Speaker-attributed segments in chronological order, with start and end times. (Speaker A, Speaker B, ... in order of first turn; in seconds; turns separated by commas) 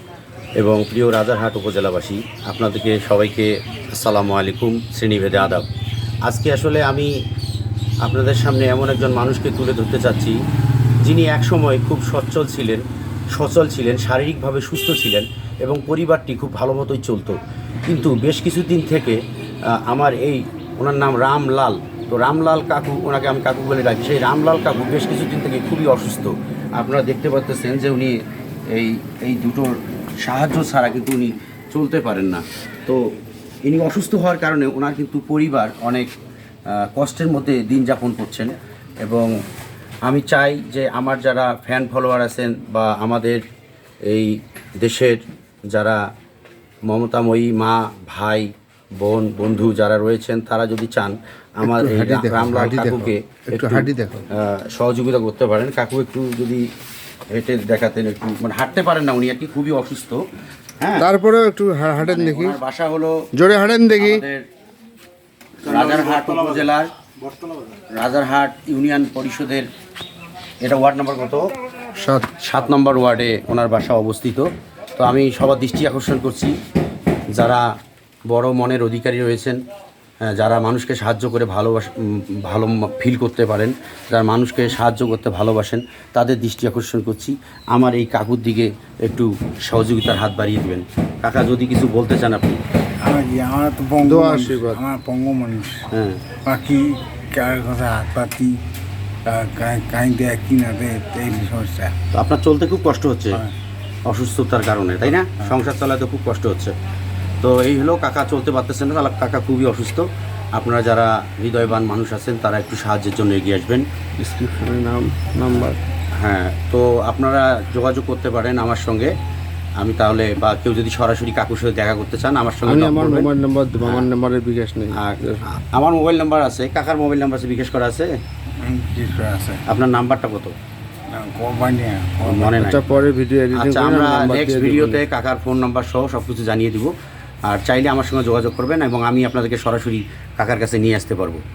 Speaker A: 0.6-5.7, Speaker A: 6.2-7.1, Speaker A: 8.0-10.4, Speaker A: 11.0-19.2, Speaker A: 19.7-28.2, Speaker A: 28.7-33.0, Speaker A: 33.6-36.1, Speaker A: 36.7-38.5, Speaker A: 39.0-39.3, Speaker A: 40.0-43.4, Speaker A: 44.1-45.2, Speaker A: 45.7-46.0, Speaker A: 46.9-48.5, Speaker A: 49.0-56.6, Speaker B: 51.6-54.3, Speaker A: 57.3-60.2, Speaker A: 60.8-61.1, Speaker B: 61.0-62.6, Speaker A: 62.0-63.2, Speaker B: 63.3-64.2, Speaker A: 64.0-64.5, Speaker A: 65.6-66.9, Speaker C: 65.7-66.7, Speaker C: 67.3-67.7, Speaker A: 67.9-69.7, Speaker A: 70.6-71.5, Speaker B: 72.0-72.3, Speaker A: 72.4-76.5, Speaker A: 77.3-77.7, Speaker A: 78.3-79.6, Speaker A: 80.2-92.6, Speaker C: 93.0-95.8, Speaker B: 94.0-94.8, Speaker A: 95.9-96.2, Speaker C: 96.4-98.6, Speaker C: 99.2-101.9, Speaker A: 102.1-103.4, Speaker A: 104.1-106.7, Speaker C: 105.2-105.5, Speaker A: 107.4-113.8, Speaker B: 114.2-115.8, Speaker A: 115.5-119.1, Speaker A: 119.8-123.3, Speaker B: 122.6-125.4, Speaker A: 123.8-124.1, Speaker A: 124.9-128.1, Speaker C: 128.6-129.6, Speaker A: 129.7-130.5, Speaker C: 131.1-133.0, Speaker A: 132.2-132.8, Speaker B: 132.6-135.0, Speaker A: 133.5-136.9, Speaker A: 137.4-141.4